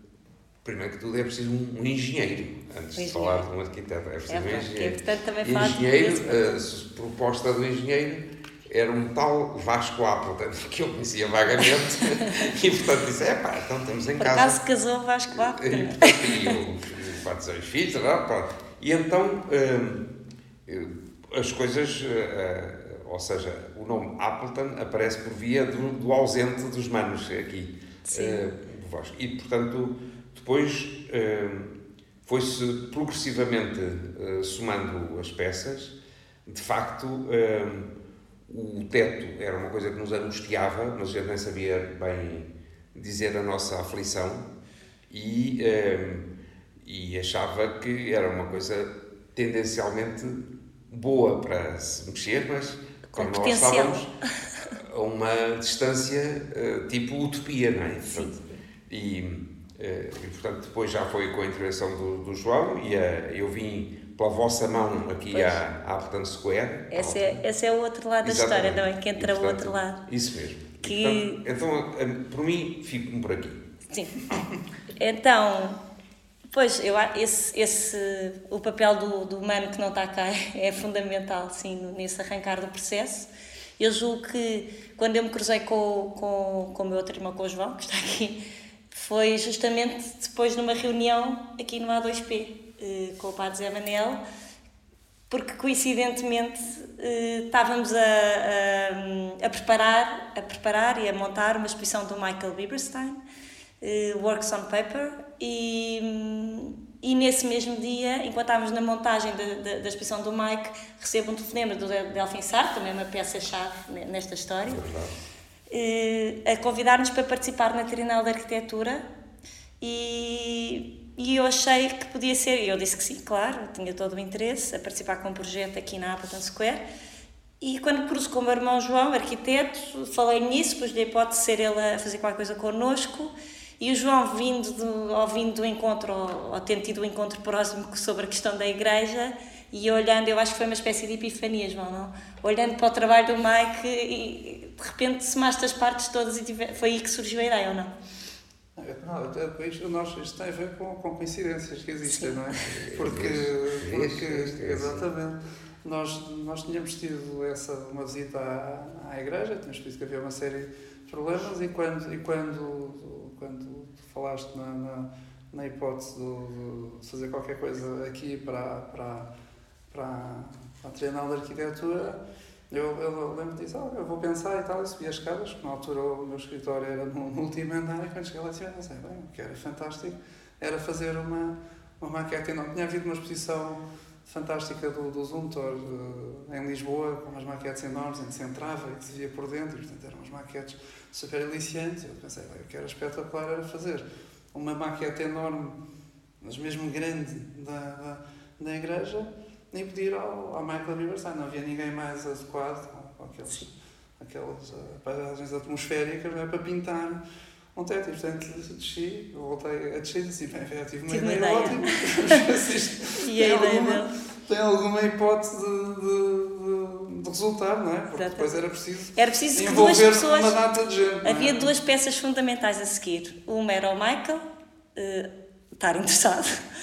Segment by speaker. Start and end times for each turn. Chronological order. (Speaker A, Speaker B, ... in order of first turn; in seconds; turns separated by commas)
Speaker A: 0.6-14.6, Speaker B: 3.0-3.4, Speaker B: 4.3-6.5, Speaker B: 14.2-16.6, Speaker A: 15.3-20.1, Speaker A: 20.7-37.9, Speaker B: 28.1-28.5, Speaker A: 38.5-44.5, Speaker A: 45.1-46.3, Speaker A: 46.8-54.1, Speaker B: 53.1-54.1, Speaker A: 54.7-67.5, Speaker B: 65.3-65.6, Speaker B: 66.9-70.0, Speaker A: 68.2-73.6, Speaker B: 70.8-71.4, Speaker B: 73.9-74.2, Speaker B: 74.9-75.8, Speaker B: 76.5-88.4, Speaker B: 88.9-94.2, Speaker B: 95.3-103.2, Speaker B: 103.8-114.8, Speaker A: 114.7-115.1, Speaker B: 115.7-119.0, Speaker B: 119.8-126.8, Speaker B: 127.6-147.9, Speaker C: 148.8-169.3, Speaker B: 152.1-152.4, Speaker A: 152.7-155.1, Speaker C: 169.9-195.8, Speaker C: 196.4-207.2, Speaker C: 207.8-221.7, Speaker B: 211.1-212.5, Speaker B: 213.2-214.1, Speaker B: 218.1-218.5, Speaker B: 219.2-220.6, Speaker B: 221.2-226.6